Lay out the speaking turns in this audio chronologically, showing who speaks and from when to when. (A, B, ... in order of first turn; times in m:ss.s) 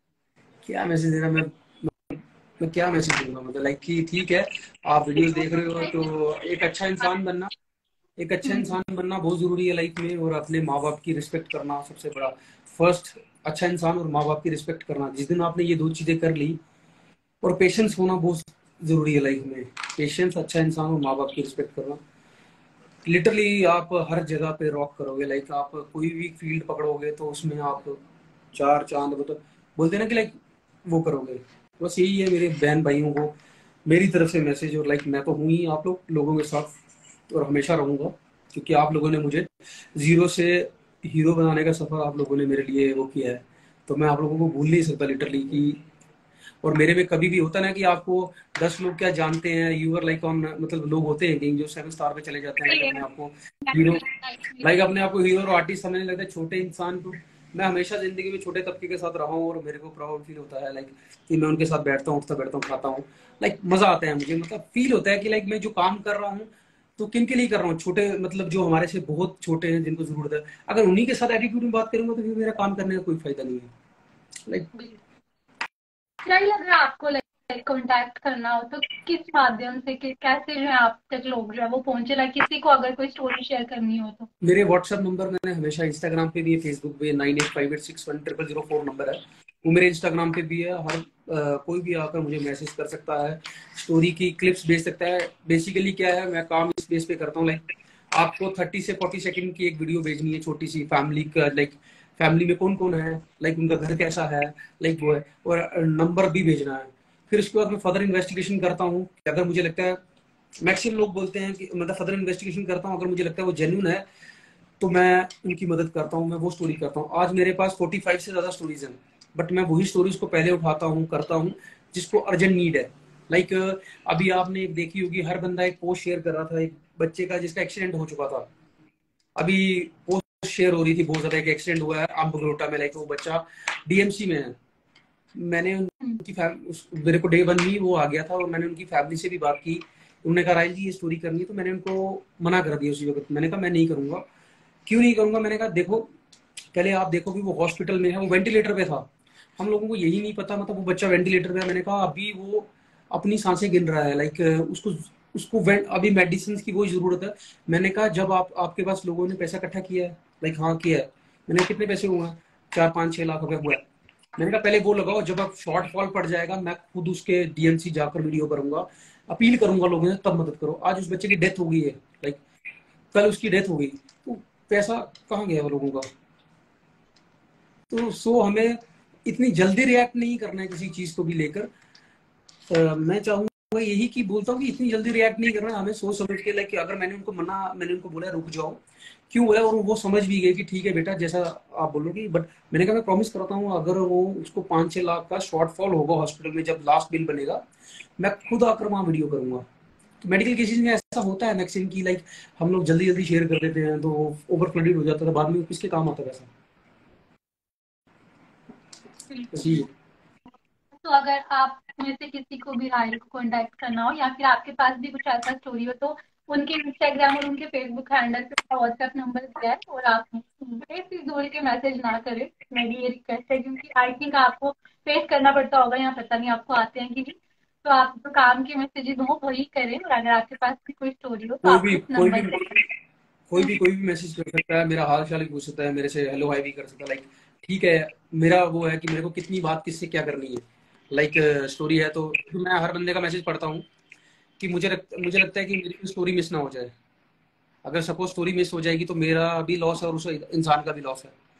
0:00.6-0:07.5 A
0:05.6-0:06.1 B
0:08.2-0:16.6 A
0:08.4-0:08.7 B
0:17.4-0:22.0 A
0:23.0-0:28.0 A
0:28.5-0:33.4 A
0:33.9-0:36.8 A
0:37.3-0:45.8 A
0:46.6-0:54.0 A
0:52.7-0:53.0 B
0:53.6-0:54.8 B
0:54.6-1:13.7 A
1:14.7-1:15.0 B
1:16.2-1:24.3 B
1:24.4-1:50.0 A
1:50.6-1:54.0 A
1:54.8-2:08.5 A
2:09.4-2:14.6 A
2:15.4-2:24.3 A
2:24.9-2:26.1 A
2:26.7-2:43.8 A
2:44.4-2:52.4 A
2:53.1-2:56.1 A
2:57.9-3:01.7 A
3:02.7-3:17.6 A
3:18.2-3:19.6 A
3:20.2-3:26.5 A
3:29.3-3:29.8 B
3:29.5-3:29.9 A
3:31.0-3:52.8 B
3:51.6-3:52.8 A
3:53.5-4:03.9 A
4:04.6-4:07.0 A
4:07.8-4:11.4 A